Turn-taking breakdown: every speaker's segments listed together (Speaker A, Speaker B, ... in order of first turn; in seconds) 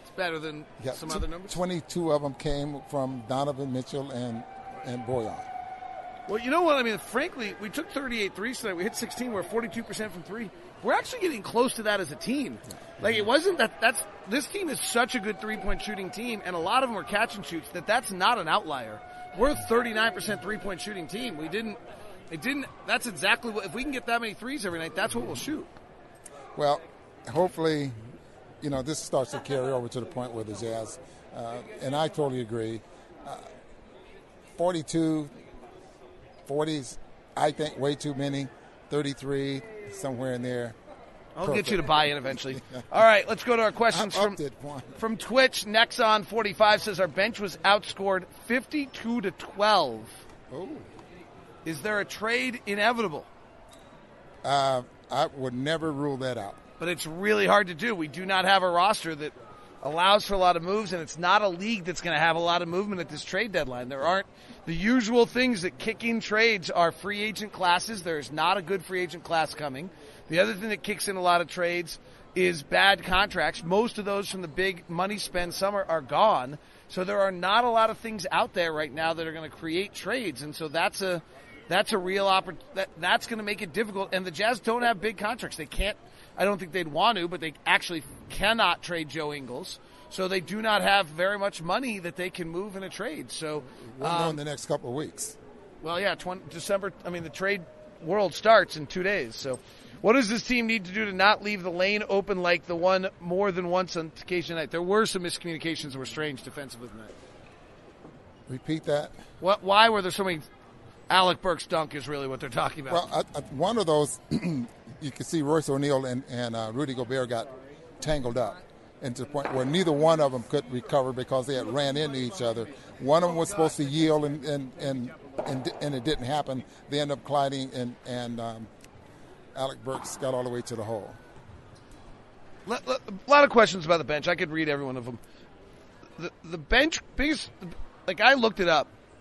Speaker A: 0.1-1.6, 6.3-25.7, 41.4-44.4, 45.0-50.2, 51.6-53.3, 56.8-94.4, 95.8-107.1, 109.4-110.5, 111.1-113.0, 132.7-135.2, 136.2-138.9
Speaker B: 0.8-5.5, 26.6-27.9, 28.6-33.5, 34.5-35.3, 36.5-40.8, 41.4-42.0, 43.9-45.0, 50.5-50.9, 54.4-56.6, 93.8-95.4, 108.5-109.1, 112.9-128.7, 129.6-131.2